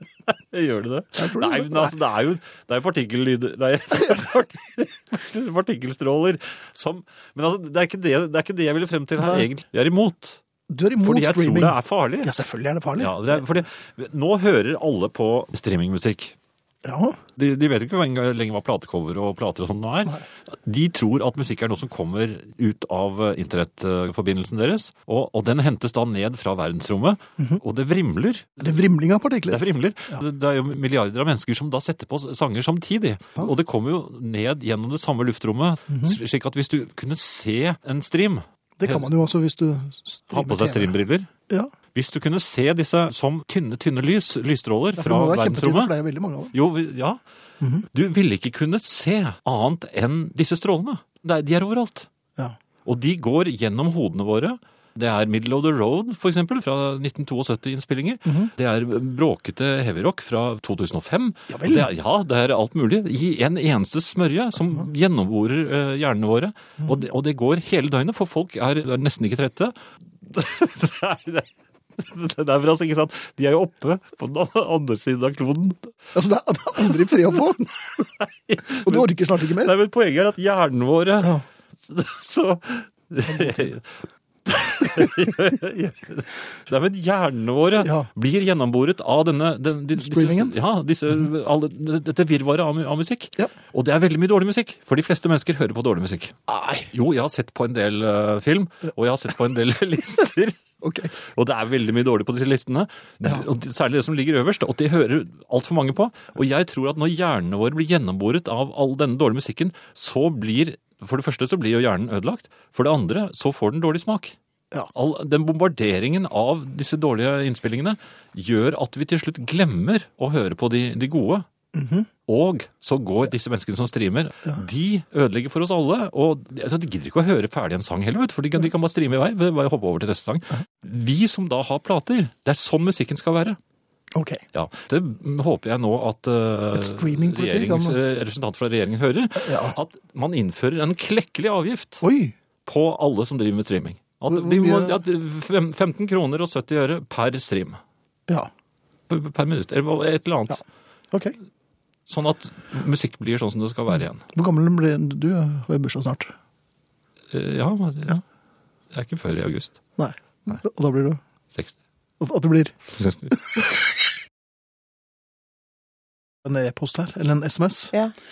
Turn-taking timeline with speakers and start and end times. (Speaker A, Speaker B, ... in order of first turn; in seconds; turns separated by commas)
Speaker A: 0.3-10.4, Speaker B: 1.2-2.0, Speaker B: 9.2-9.5, Speaker B: 10.7-13.4, Speaker A: 11.0-12.3, Speaker A: 13.0-16.4, Speaker B: 16.8-17.2, Speaker A: 17.4-28.8, Speaker B: 28.6-29.6, Speaker A: 29.5-39.1, Speaker B: 35.9-36.1, Speaker B: 38.8-40.9, Speaker A: 40.3-41.3, Speaker A: 41.9-45.9, Speaker B: 45.0-46.5, Speaker A: 46.5-47.2, Speaker B: 47.6-47.9, Speaker A: 47.9-52.1, Speaker A: 52.9-75.9, Speaker B: 61.5-61.9, Speaker B: 76.1-77.8, Speaker A: 76.9-83.9, Speaker B: 78.8-79.7, Speaker B: 83.2-83.8, Speaker A: 84.4-96.4, Speaker B: 87.8-88.1, Speaker B: 89.9-90.5, Speaker B: 96.5-96.9, Speaker A: 96.9-100.6, Speaker B: 100.8-101.1, Speaker A: 101.2-114.4, Speaker A: 114.9-121.4, Speaker B: 121.8-122.1, Speaker A: 122.3-133.6, Speaker B: 134.1-134.4, Speaker A: 134.5-142.0, Speaker B: 136.7-138.0, Speaker B: 139.4-139.8, Speaker B: 142.0-142.3, Speaker A: 142.7-147.8, Speaker B: 144.3-145.0, Speaker A: 149.1-150.6, Speaker B: 150.5-151.4, Speaker A: 152.1-154.2, Speaker B: 154.3-156.3, Speaker A: 157.3-158.2, Speaker A: 158.9-159.8, Speaker B: 160.0-161.2, Speaker B: 162.2-162.8, Speaker A: 162.9-163.8, Speaker B: 166.4-167.9